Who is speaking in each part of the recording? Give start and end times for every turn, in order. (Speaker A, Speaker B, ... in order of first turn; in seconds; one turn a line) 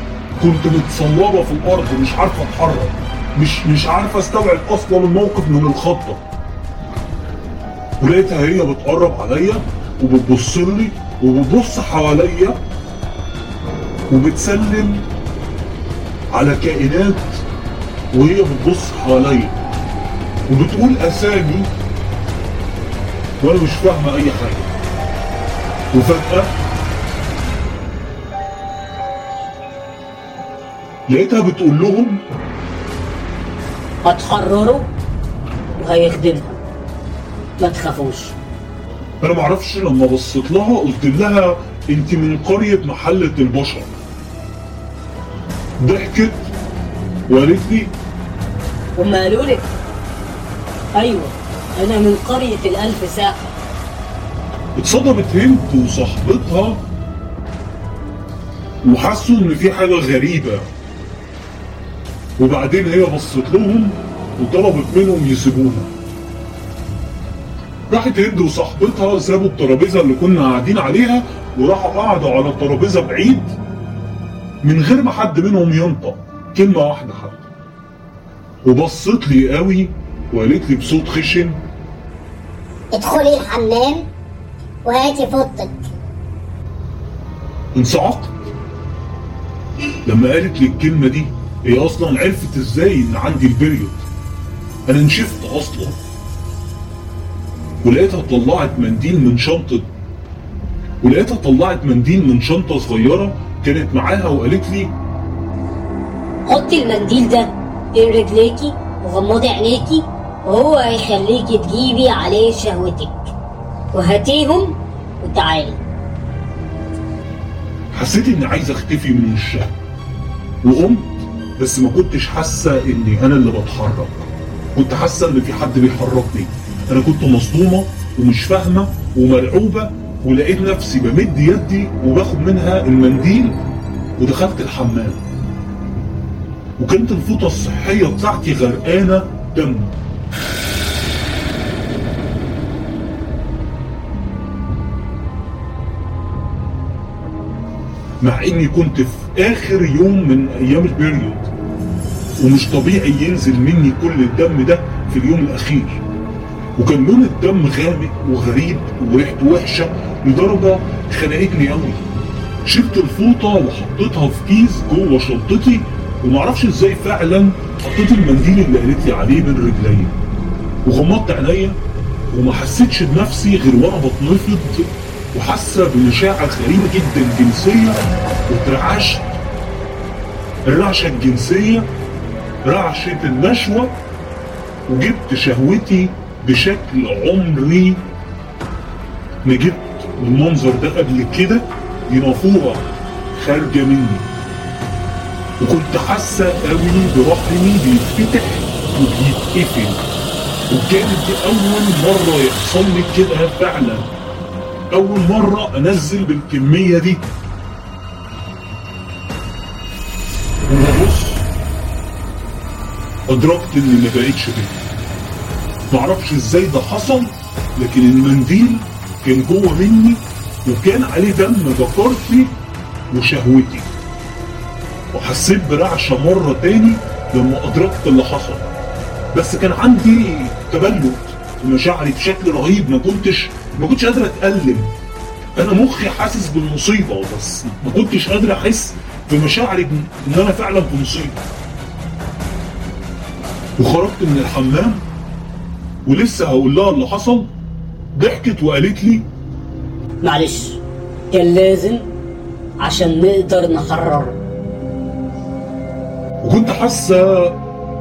Speaker A: 0.4-6.2
Speaker A: 8.0-12.6
Speaker A: 14.1-15.1
Speaker A: 16.3-17.4
Speaker A: 18.1-19.6
Speaker A: 20.5-21.7
Speaker A: 23.4-24.7
Speaker A: 25.9-26.5
Speaker A: 31.1-32.2
Speaker B: 34.0-34.9
Speaker B: 35.8-36.6
Speaker B: 37.6-38.4
Speaker A: 39.2-43.9
Speaker A: 45.8-46.5
Speaker A: 47.3-47.9
Speaker B: 49.0-49.7
Speaker B: 51.0-53.5
Speaker A: 54.8-56.8
Speaker A: 58.8-60.7
Speaker A: 62.4-65.9
Speaker A: 67.9-73.6
Speaker A: 74.6-77.5
Speaker A: 78.7-81.6
Speaker C: 82.9-84.1
Speaker C: 84.8-85.8
Speaker A: 87.8-88.5
Speaker A: 90.1-94.1
Speaker A: 94.9-96.0
Speaker A: 97.8-99.9
Speaker A: 101.0-105.0
Speaker B: 106.5-113.3
Speaker B: 113.9-115.8
Speaker A: 117.9-119.7
Speaker A: 120.6-133.6
Speaker A: 134.2-135.2
Speaker A: 136.8-139.9
Speaker A: 148.2-151.5
Speaker A: 152.4-156.0
Speaker A: 156.8-162.0
Speaker A: 162.7-170.2
Speaker A: 170.9-171.8
Speaker A: 172.3-179.4
Speaker A: 180.7-181.9
Speaker A: 182.7-184.0
Speaker A: 184.9-188.0
Speaker A: 189.4-194.3
Speaker A: 195.6-200.0
Speaker A: 200.7-204.1
Speaker A: 204.9-207.3
Speaker A: 210.7-211.5
Speaker A: 213.3-214.8
Speaker A: 215.9-222.6
Speaker A: 223.1-223.9
Speaker A: 225.1-228.7
Speaker A: 229.3-234.9
Speaker A: 235.6-241.4
Speaker A: 243.8-245.0
Speaker A: 246.1-247.5
Speaker A: 248.2-249.3
Speaker B: 250.2-252.1
Speaker B: 252.8-254.4
Speaker A: 256.4-257.6